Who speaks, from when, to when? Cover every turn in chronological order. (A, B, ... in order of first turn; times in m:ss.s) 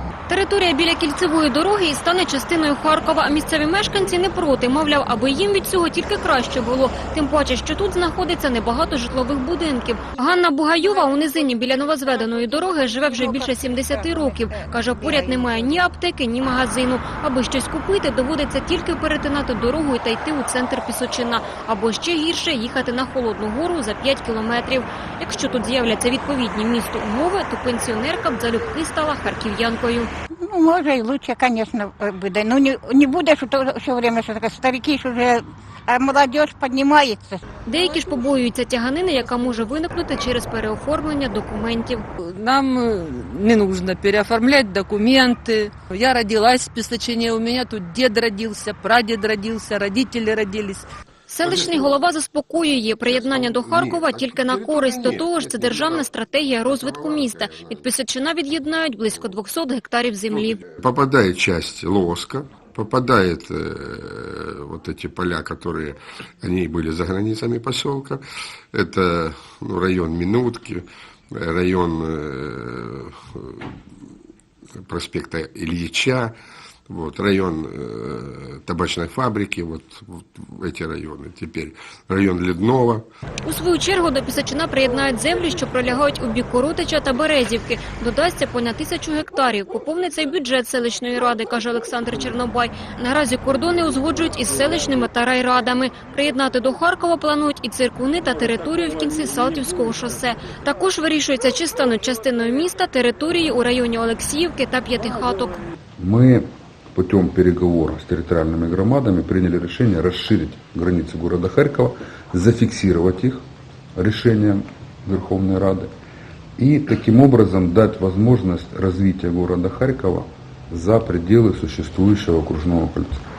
0:00.3-0:30.1 A
0:10.1-0:15.9 B
0:30.4-0:37.4 B
0:37.7-0:42.0 A
0:42.2-0:50.9 C
0:51.3-1:00.6 A
0:51.4-0:52.0 D
0:53.0-0:57.9 D
1:00.3-1:13.8 D
1:14.8-1:16.3 D
1:16.9-1:23.1 D
1:23.4-1:45.6 A
1:46.0-1:53.4 E
1:54.0-1:55.9 E
1:56.6-2:03.2 E